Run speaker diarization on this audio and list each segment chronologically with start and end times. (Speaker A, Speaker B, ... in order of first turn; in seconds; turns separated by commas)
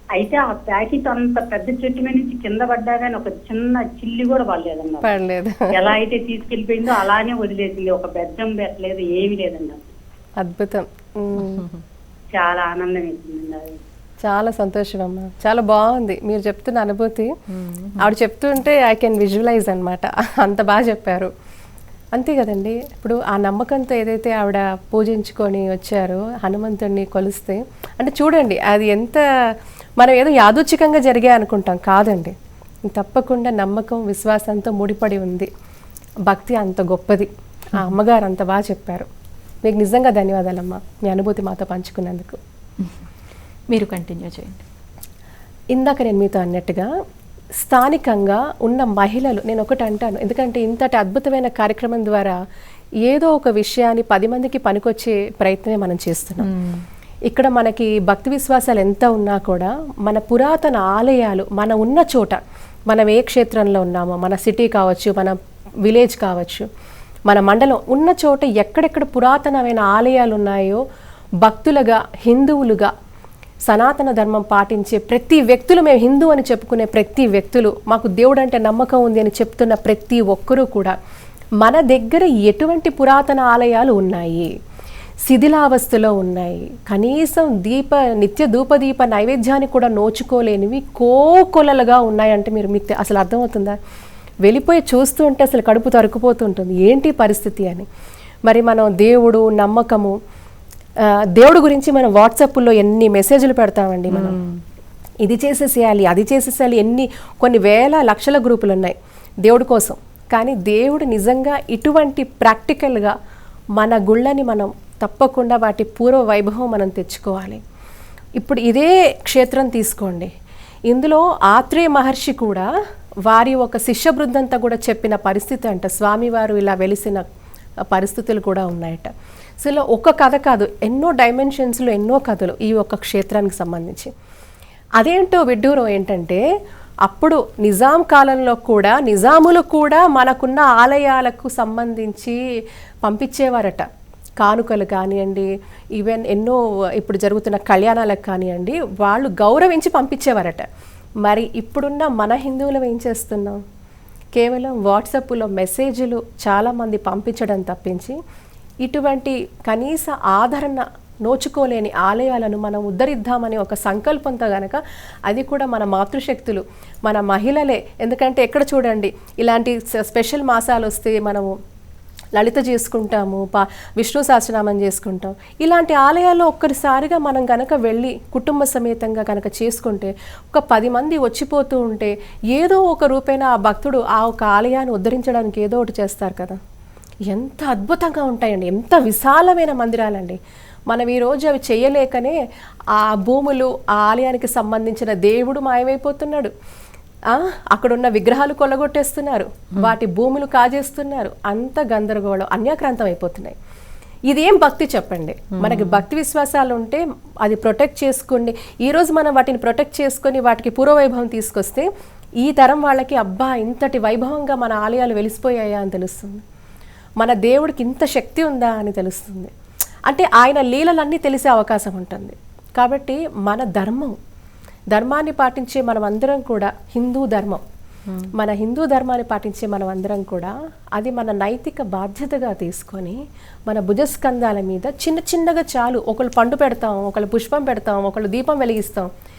Speaker A: 0.1-5.1, Speaker B: 5.0-5.9, Speaker A: 5.7-9.9, Speaker B: 10.4-11.6, Speaker C: 11.4-11.8, Speaker A: 12.3-13.8, Speaker B: 14.2-17.3, Speaker C: 17.5-18.1, Speaker B: 18.0-21.3, Speaker B: 22.1-29.2, Speaker B: 30.0-32.3, Speaker B: 32.9-35.5, Speaker B: 36.2-39.1, Speaker B: 39.6-42.4, Speaker C: 43.7-44.6, Speaker B: 45.7-46.9, Speaker B: 47.6-52.4, Speaker B: 53.0-56.5, Speaker C: 56.4-56.8, Speaker B: 57.3-66.7, Speaker B: 67.3-70.8, Speaker B: 71.4-72.9, Speaker B: 73.7-81.0, Speaker B: 81.6-84.5, Speaker B: 85.2-93.8, Speaker B: 94.4-97.8, Speaker B: 98.5-100.2, Speaker B: 101.0-104.3, Speaker C: 104.1-104.6, Speaker B: 105.2-113.1, Speaker B: 113.8-117.6, Speaker B: 118.4-120.3, Speaker B: 120.9-122.7, Speaker B: 123.2-127.2, Speaker B: 127.9-134.1, Speaker B: 135.0-136.4, Speaker B: 137.0-142.4, Speaker B: 143.0-143.9, Speaker B: 144.4-150.7, Speaker B: 151.2-153.6, Speaker B: 154.3-158.2, Speaker B: 158.8-171.5, Speaker B: 172.3-186.6, Speaker B: 187.3-190.4, Speaker B: 190.9-192.4, Speaker B: 192.9-196.5, Speaker B: 197.3-203.5, Speaker B: 204.3-211.9, Speaker C: 205.6-206.0, Speaker B: 212.4-216.4, Speaker B: 217.2-219.5, Speaker B: 220.1-224.2, Speaker B: 224.9-227.6, Speaker C: 228.1-228.3, Speaker B: 228.3-239.1